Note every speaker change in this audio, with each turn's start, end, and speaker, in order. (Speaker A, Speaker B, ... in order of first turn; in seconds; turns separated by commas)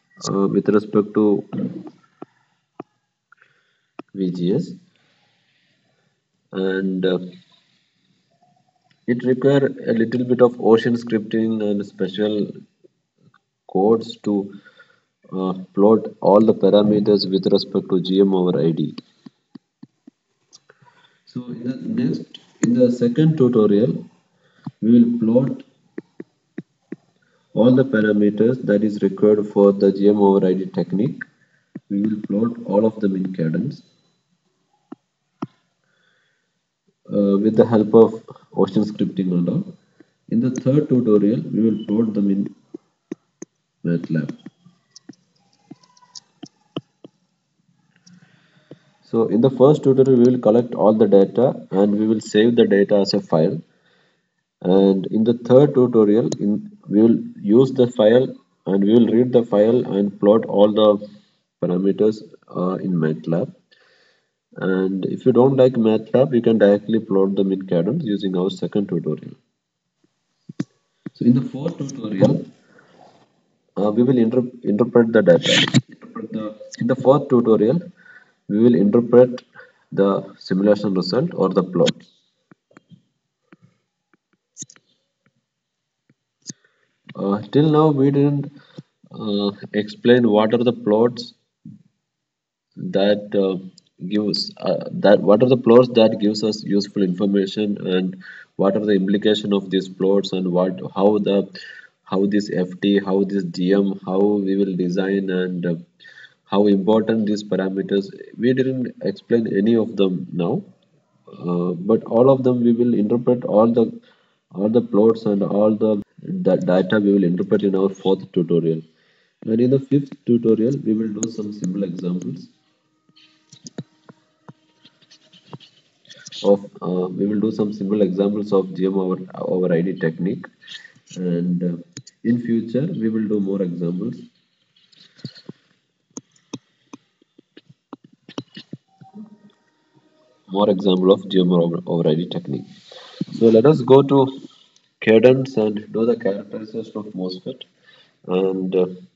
Speaker A: 0.2-1.8, Speaker A: 4.1-4.8, Speaker A: 6.5-7.2, Speaker A: 9.1-12.5, Speaker A: 13.7-14.5, Speaker A: 15.3-18.9, Speaker A: 21.3-24.0, Speaker A: 24.8-25.6, Speaker A: 27.5-31.2, Speaker A: 31.9-33.8, Speaker A: 37.1-39.7, Speaker A: 40.3-42.5, Speaker A: 43.8-44.4, Speaker A: 49.0-53.6, Speaker A: 54.6-61.0, Speaker A: 61.6-63.5, Speaker A: 64.6-69.4, Speaker A: 71.2-72.4, Speaker A: 73.8-77.8, Speaker A: 78.5-82.0, Speaker A: 87.2-88.5, Speaker A: 89.1-91.3, Speaker A: 92.8-101.5, Speaker A: 102.0-105.8, Speaker A: 106.5-110.7, Speaker A: 111.3-113.9, Speaker A: 114.5-118.8, Speaker A: 119.4-122.5, Speaker A: 126.4-130.5, Speaker A: 131.1-134.3, Speaker A: 140.5-142.7, Speaker A: 143.3-144.3, Speaker A: 145.0-147.7, Speaker A: 148.3-148.9